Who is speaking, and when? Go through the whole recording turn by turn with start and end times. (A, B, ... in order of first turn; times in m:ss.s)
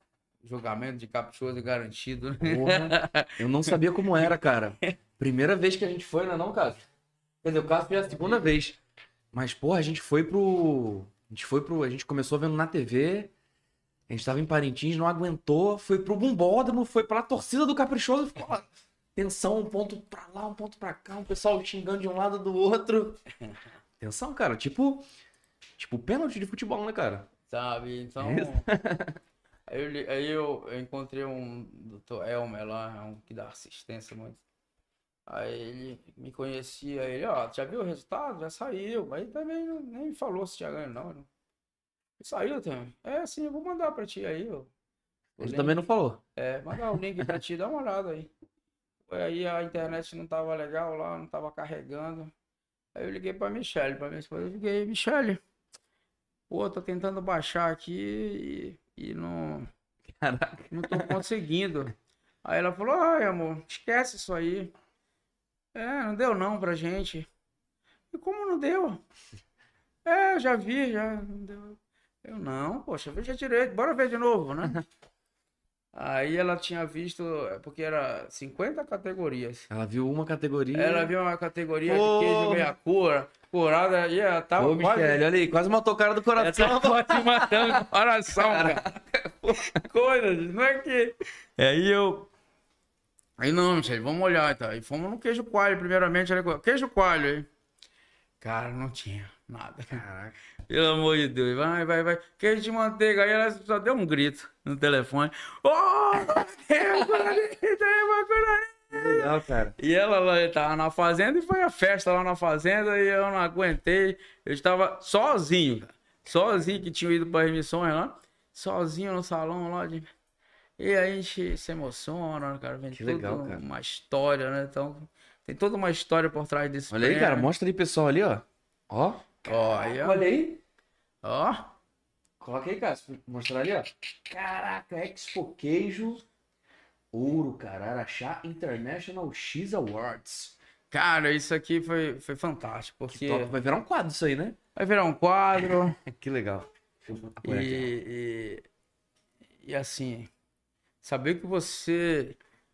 0:00.4-0:05.0 A
0:02.4-0:06.8 B
0:07.4-0:08.8 B
0:09.3-0:13.3 B
0:14.1-0:23.2 B
0:24.0-0:25.1 B
0:25.8-0:27.3 B
0:27.5-0:28.7 A
0:28.2-0:29.2 B
0:29.7-0:34.4 A
0:35.3-0:41.3 A
0:42.2-0:44.7 A
0:45.4-0:45.8 A
0:45.4-0:46.2 B
0:46.4-0:48.3 A
0:49.1-0:52.3 A
0:53.0-0:55.4 A
0:56.5-0:59.7 A
1:00.1-1:01.2 B
1:00.7-1:04.7 A
1:05.8-1:07.3 A
1:08.1-1:09.0 A
1:10.0-1:14.8 A
1:15.9-1:19.7 A
1:19.7-1:21.1 B
1:20.7-1:25.2 A
1:21.9-1:22.7 B
1:24.6-1:29.8 B
1:26.4-1:28.9 A
1:29.7-1:32.3 A
1:33.4-1:37.5 A
1:38.4-1:40.0 A
1:39.9-1:40.4 B
1:40.7-2:00.1 A
1:48.9-1:49.8 B
2:00.8-2:07.5 A
2:02.9-2:03.6 B
2:06.9-2:10.6 B
2:09.4-2:10.3 A
2:11.2-2:11.7 A
2:12.4-2:16.2 B
2:17.1-2:20.6 B
2:20.9-2:23.6 A
2:23.1-2:24.6 B
2:24.8-2:26.0 A
2:25.8-2:27.9 B
2:27.4-2:28.6 A
2:29.6-2:30.3 A
2:31.0-2:32.4 A